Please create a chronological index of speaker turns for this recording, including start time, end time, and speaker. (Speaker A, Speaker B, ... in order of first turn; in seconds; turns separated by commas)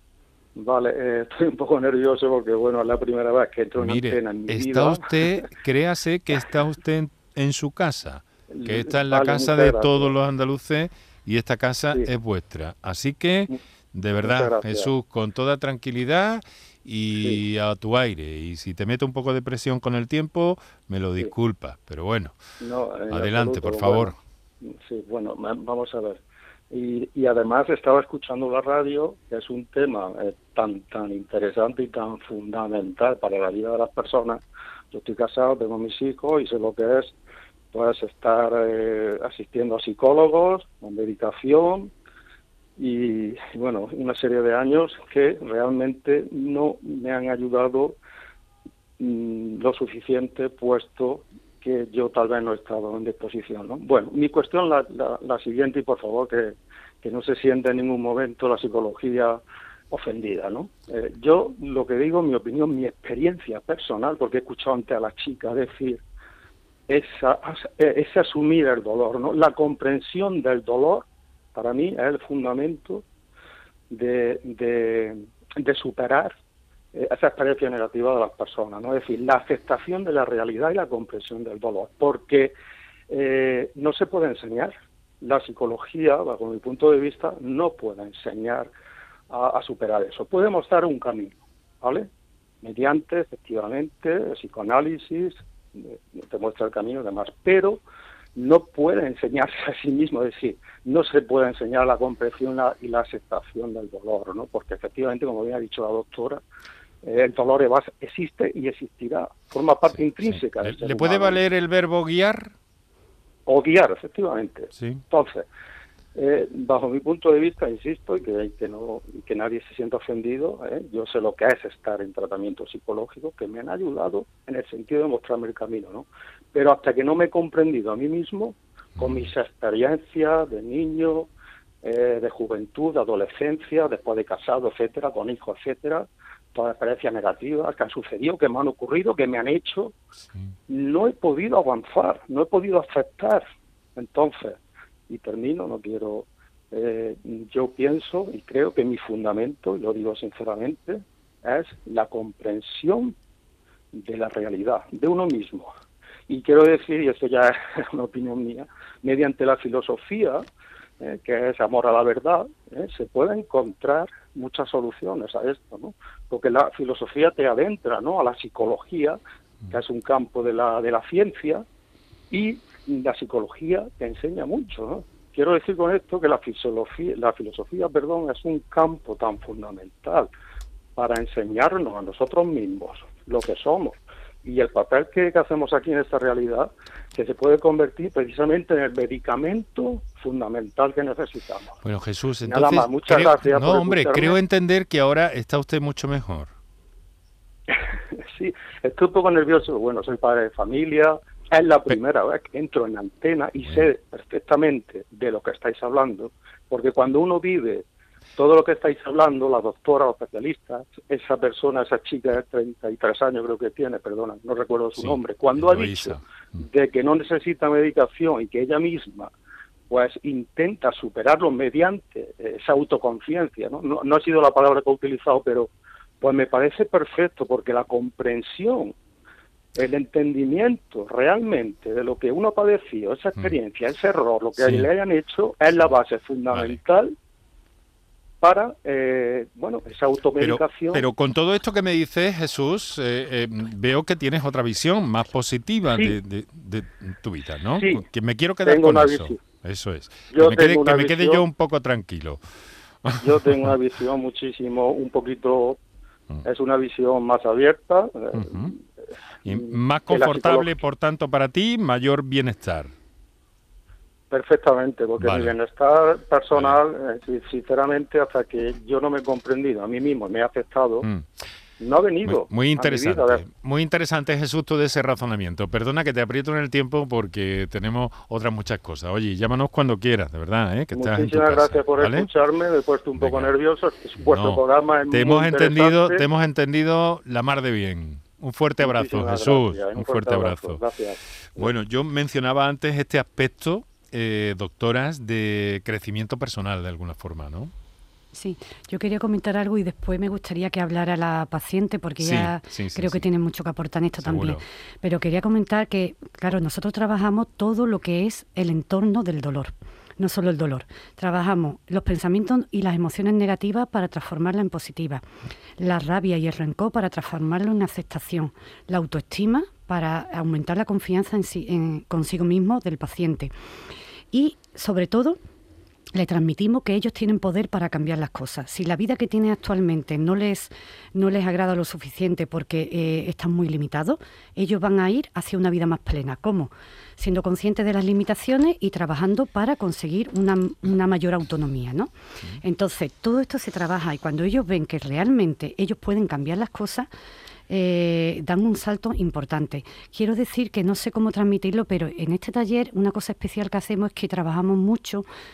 Speaker A: 0.6-5.3, Speaker B: 3.8-22.4, Speaker A: 8.5-10.1, Speaker A: 14.2-14.9, Speaker A: 17.1-17.4, Speaker A: 22.6-26.2, Speaker B: 23.1-24.2, Speaker A: 26.7-37.2, Speaker A: 37.7-41.9, Speaker A: 42.8-48.0, Speaker A: 49.0-66.0, Speaker A: 66.9-73.0, Speaker A: 73.9-76.3, Speaker A: 76.9-82.5, Speaker A: 83.1-88.7, Speaker A: 89.3-92.1, Speaker A: 92.6-97.8, Speaker A: 98.3-106.4, Speaker A: 107.0-111.4, Speaker B: 110.0-112.5, Speaker A: 113.5-115.5, Speaker B: 114.7-115.0, Speaker A: 116.1-131.3, Speaker B: 129.0-129.3, Speaker A: 131.8-139.9, Speaker A: 140.7-143.4, Speaker A: 143.9-144.6, Speaker A: 145.1-153.1, Speaker A: 153.9-155.7, Speaker A: 156.3-160.4, Speaker A: 161.0-169.2, Speaker A: 169.7-171.6, Speaker A: 172.3-180.3, Speaker A: 180.9-191.8, Speaker B: 191.8-196.5, Speaker A: 192.4-194.4, Speaker A: 198.2-207.8, Speaker A: 208.4-219.3, Speaker B: 215.0-216.6, Speaker A: 219.9-225.7, Speaker A: 226.2-228.9, Speaker A: 229.8-237.1, Speaker B: 234.6-234.9, Speaker B: 236.5-236.8, Speaker A: 238.4-241.1, Speaker B: 240.4-252.4, Speaker A: 247.7-248.0, Speaker A: 248.6-249.4, Speaker A: 250.3-251.4, Speaker B: 253.0-253.7, Speaker A: 253.2-255.8, Speaker A: 256.4-258.8, Speaker B: 258.3-258.7, Speaker B: 259.4-262.9, Speaker A: 259.5-260.8, Speaker A: 264.3-271.1, Speaker B: 265.2-265.5, Speaker A: 271.8-273.4, Speaker B: 272.2-282.3, Speaker A: 280.9-286.2, Speaker B: 283.1-283.5, Speaker B: 284.2-290.8, Speaker A: 288.8-291.7, Speaker B: 291.6-297.7, Speaker C: 298.3-315.2, Speaker B: 302.2-303.3, Speaker B: 304.2-304.6, Speaker C: 315.8-323.5, Speaker C: 324.3-325.4, Speaker C: 326.1-347.1, Speaker C: 347.7-355.3